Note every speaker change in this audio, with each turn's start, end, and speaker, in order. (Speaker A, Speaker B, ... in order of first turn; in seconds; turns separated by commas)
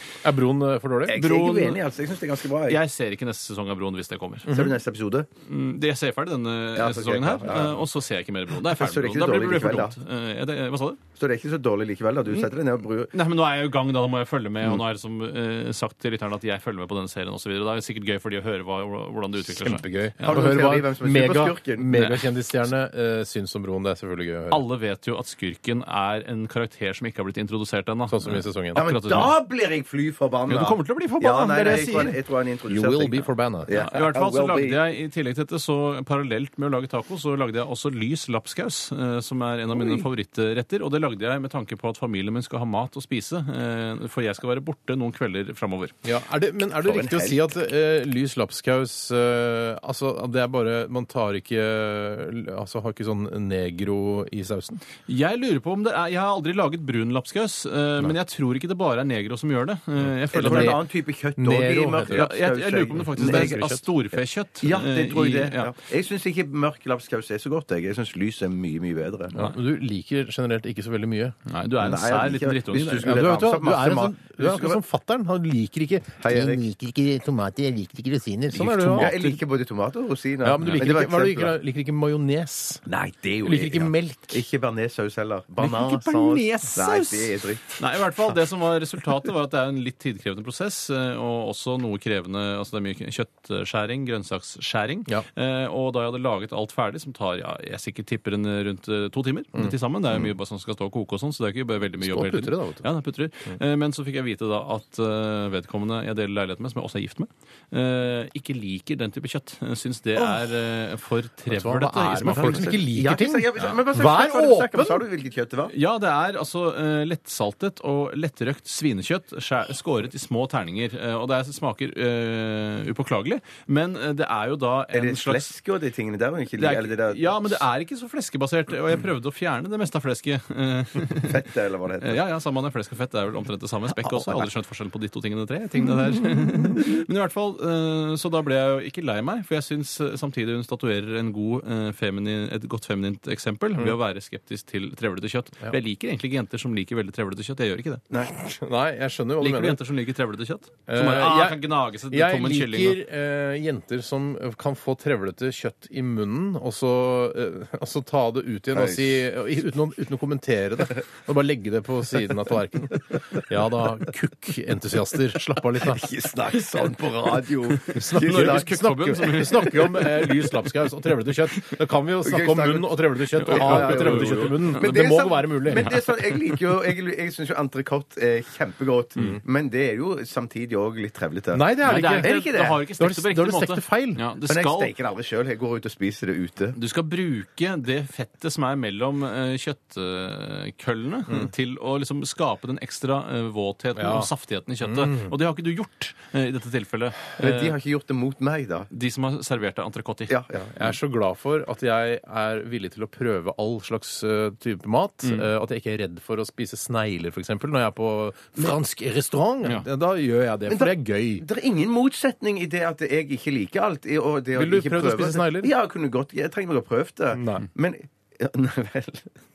Speaker A: 0.2-1.2, Speaker B: 1.1-2.8, Speaker C: 1.1-1.8, Speaker C: 2.6-4.5, Speaker B: 4.5-5.3, Speaker C: 5.4-11.0, Speaker B: 6.7-7.8, Speaker B: 8.6-9.9, Speaker B: 11.2-13.1, Speaker C: 13.1-20.4, Speaker A: 19.4-24.6, Speaker B: 20.2-21.9, Speaker C: 21.9-22.2, Speaker C: 24.5-29.3, Speaker A: 28.1-28.8, Speaker B: 28.7-34.8, Speaker C: 30.5-32.1, Speaker A: 32.7-33.7, Speaker C: 33.7-45.9, Speaker A: 46.0-54.8, Speaker B: 46.8-47.4, Speaker C: 55.0-60.8, Speaker A: 60.3-60.9, Speaker B: 60.3-63.6, Speaker A: 61.4-62.3, Speaker C: 62.1-65.7, Speaker A: 63.0-63.8, Speaker B: 64.6-69.4, Speaker A: 69.3-71.3, Speaker C: 71.5-73.2, Speaker B: 71.8-74.8, Speaker A: 73.0-79.1, Speaker B: 76.2-76.7, Speaker C: 78.5-79.4, Speaker B: 78.9-81.5, Speaker A: 80.4-82.8, Speaker B: 82.9-87.8, Speaker A: 83.4-84.4, Speaker C: 85.6-112.8, Speaker A: 102.0-102.9, Speaker A: 111.5-115.0, Speaker B: 112.2-115.7, Speaker C: 115.7-125.5, Speaker B: 124.9-127.6, Speaker C: 126.6-131.4, Speaker B: 131.2-132.2, Speaker C: 132.0-148.0, Speaker A: 148.3-149.8, Speaker C: 149.4-153.0, Speaker A: 150.9-166.1, Speaker B: 158.7-159.2, Speaker B: 165.8-169.7, Speaker C: 167.9-170.3, Speaker A: 167.9-176.0, Speaker B: 172.2-182.8, Speaker C: 173.4-174.9, Speaker C: 175.8-176.1, Speaker A: 181.5-182.3, Speaker C: 181.8-184.9, Speaker A: 183.0-184.2, Speaker B: 184.5-186.8, Speaker C: 186.7-197.7, Speaker A: 193.9-194.3, Speaker A: 194.8-195.3, Speaker B: 197.4-198.9, Speaker C: 198.9-200.3, Speaker B: 200.3-200.8, Speaker A: 200.7-211.4, Speaker C: 205.2-205.5, Speaker B: 210.7-219.3, Speaker A: 214.5-215.7, Speaker A: 217.3-217.7